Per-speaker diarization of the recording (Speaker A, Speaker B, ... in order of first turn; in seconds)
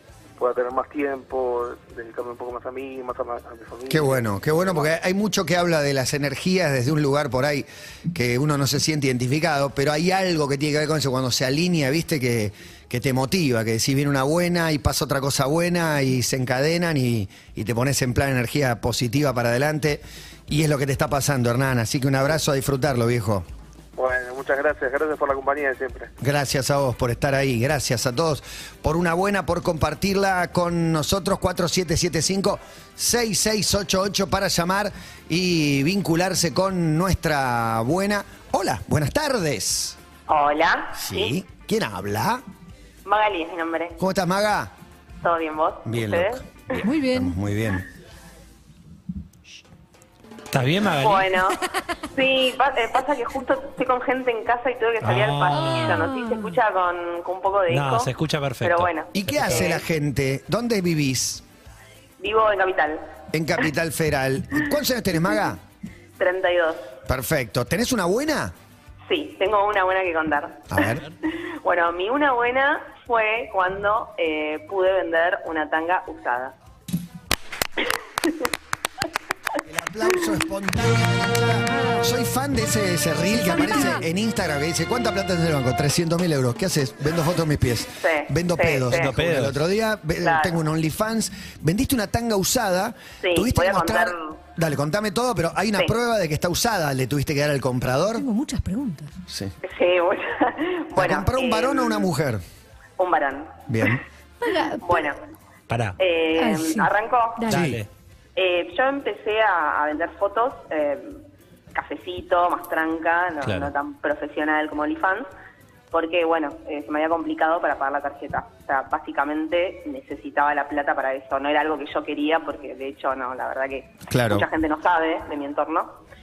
Speaker A: 0.4-4.9, 23.9-26.1
Speaker B: 3.9-23.5, 26.2-40.0, 40.9-42.4, 44.0-44.7, 45.8-47.9, 59.1-61.4, 63.3-65.6, 67.0-68.5, 70.7-71.0, 79.6-98.2, 99.3-99.5, 100.9-102.4, 103.7-104.0, 107.5-107.8, 124.1-124.5
Speaker C: 40.3-41.3, 43.0-44.0, 45.2-46.8, 50.8-59.8, 62.2-63.1, 66.2-66.9, 69.1-76.5, 78.2-78.5, 88.0-89.1, 90.2-90.6, 93.2-94.3, 99.6-102.1, 103.0-104.0, 104.8-105.2, 106.0-107.5, 108.3-111.2, 111.7-115.3, 115.9-126.0
Speaker D: 46.8-47.4, 55.5-56.5, 81.7-82.0, 83.2-84.0, 98.2-99.1, 104.4-105.0, 106.3-107.6
Speaker E: 50.5-51.4, 55.0-56.0, 57.7-59.7, 88.9-89.6, 105.7-106.0, 107.5-107.9, 113.4-113.7